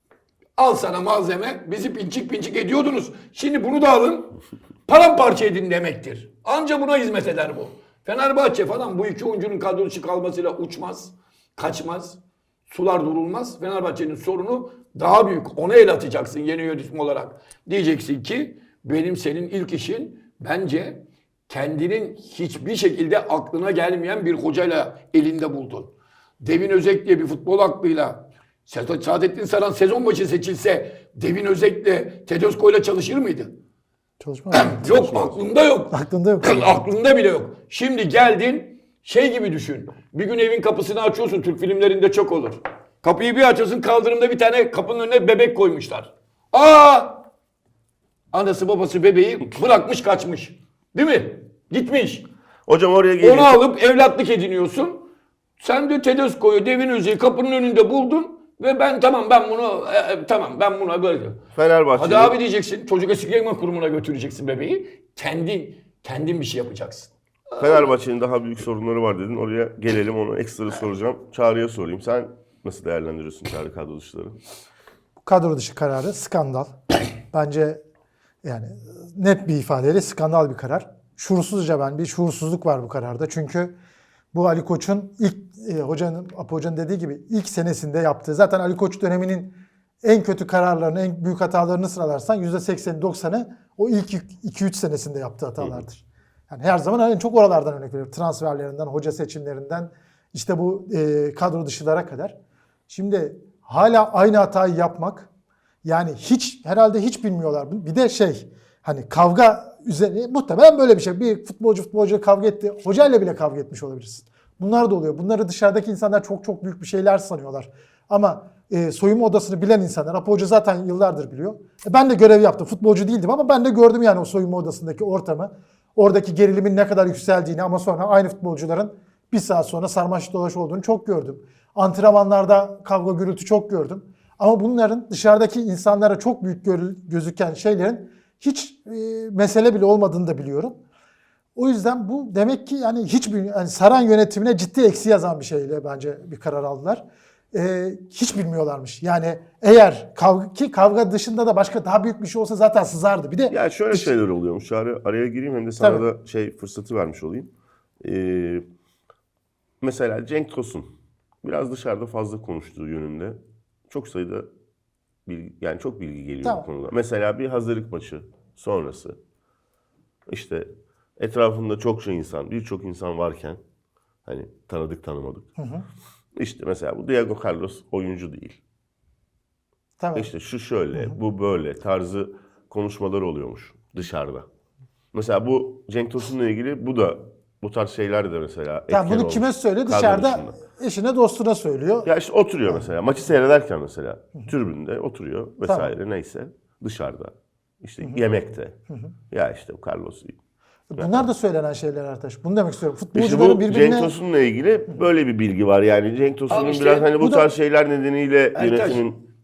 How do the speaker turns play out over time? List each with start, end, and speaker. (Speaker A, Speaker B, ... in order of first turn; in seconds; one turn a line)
Speaker A: 0.6-4.3
Speaker A: 4.9-33.5
Speaker B: 34.2-35.2
Speaker A: 34.5-47.2
Speaker C: 34.9-35.4
Speaker B: 35.9-36.8
Speaker A: 48.3-52.3
Speaker C: 52.7-53.6
Speaker A: 53.2-61.4
Speaker C: 61.5-62.4
Speaker A: 62.0-67.9
Speaker C: 67.6-74.4
Speaker B: 75.2-77.8
Speaker B: 78.4-83.8
Speaker B: 84.3-102.4
Speaker B: 102.9-105.3
Speaker B: 105.8-140.8
Speaker B: 141.6-154.1
Speaker C: 153.5-158.6
Speaker B: 155.8-156.1
Speaker C: 159.8-160.9
Speaker C: 161.4-163.4
Speaker C: 163.9-164.5
Speaker C: 165.3-169.2
Speaker C: 170.3-173.6
Speaker C: 174.3-175.5
Speaker B: 175.6-175.9
Speaker C: 176.4-178.6
Speaker B: 180.0-180.3
Speaker C: 180.2-184.5
Speaker C: 185.1-190.5
Speaker B: 188.9-192.1
Speaker C: 192.1-198.8
Speaker C: 199.3-200.4
Speaker B: 200.9-204.1
Speaker C: 201.0-201.3
Speaker C: 203.1-209.2
Speaker A: 206.5-207.1
Speaker B: 207.2-207.5
Speaker A: 208.5-209.0